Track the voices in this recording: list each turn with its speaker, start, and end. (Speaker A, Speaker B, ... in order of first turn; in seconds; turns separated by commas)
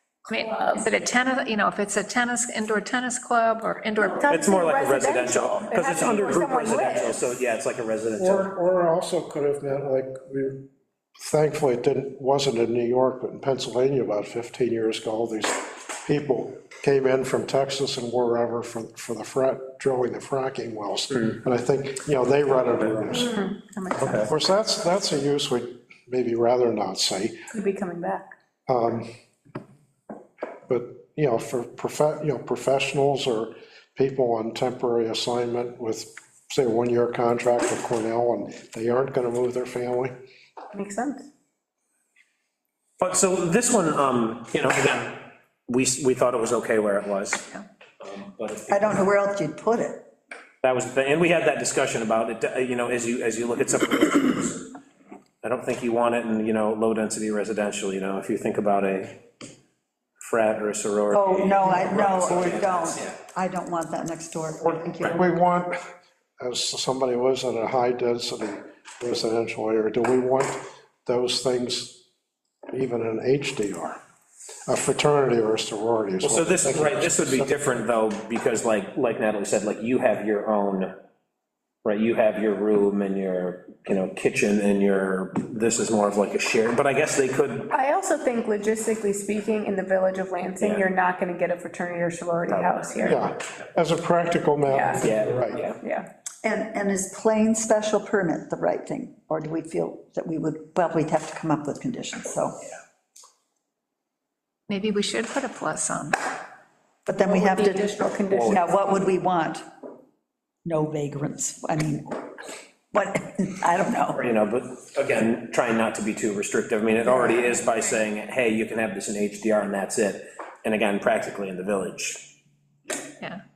Speaker A: 0.2-0.9, Speaker B: 0.3-4.4, Speaker A: 4.0-7.3, Speaker C: 4.3-8.5, Speaker D: 8.2-10.6, Speaker D: 11.2-23.4, Speaker A: 23.1-24.3, Speaker C: 23.9-24.3, Speaker D: 24.3-27.4, Speaker A: 27.5-28.3, Speaker D: 28.7-29.1, Speaker D: 30.7-40.1, Speaker A: 40.7-41.3, Speaker C: 43.0-49.0, Speaker E: 48.7-50.0, Speaker C: 50.6-54.7, Speaker C: 55.4-59.2, Speaker C: 60.2-63.1, Speaker E: 61.1-65.3, Speaker D: 64.6-65.8, Speaker D: 66.4-72.0, Speaker D: 72.7-74.0, Speaker D: 74.7-77.6, Speaker C: 76.2-80.9, Speaker C: 81.8-87.7, Speaker A: 87.7-93.2, Speaker C: 90.6-90.9, Speaker C: 92.5-92.8, Speaker D: 93.0-95.6, Speaker A: 94.7-96.1, Speaker C: 95.0-95.8, Speaker E: 96.4-102.6, Speaker B: 104.7-106.2, Speaker E: 107.0-107.9, Speaker A: 107.1-108.7, Speaker C: 108.3-108.6, Speaker E: 108.5-109.6, Speaker E: 110.6-112.3, Speaker E: 112.9-114.2, Speaker C: 114.2-122.4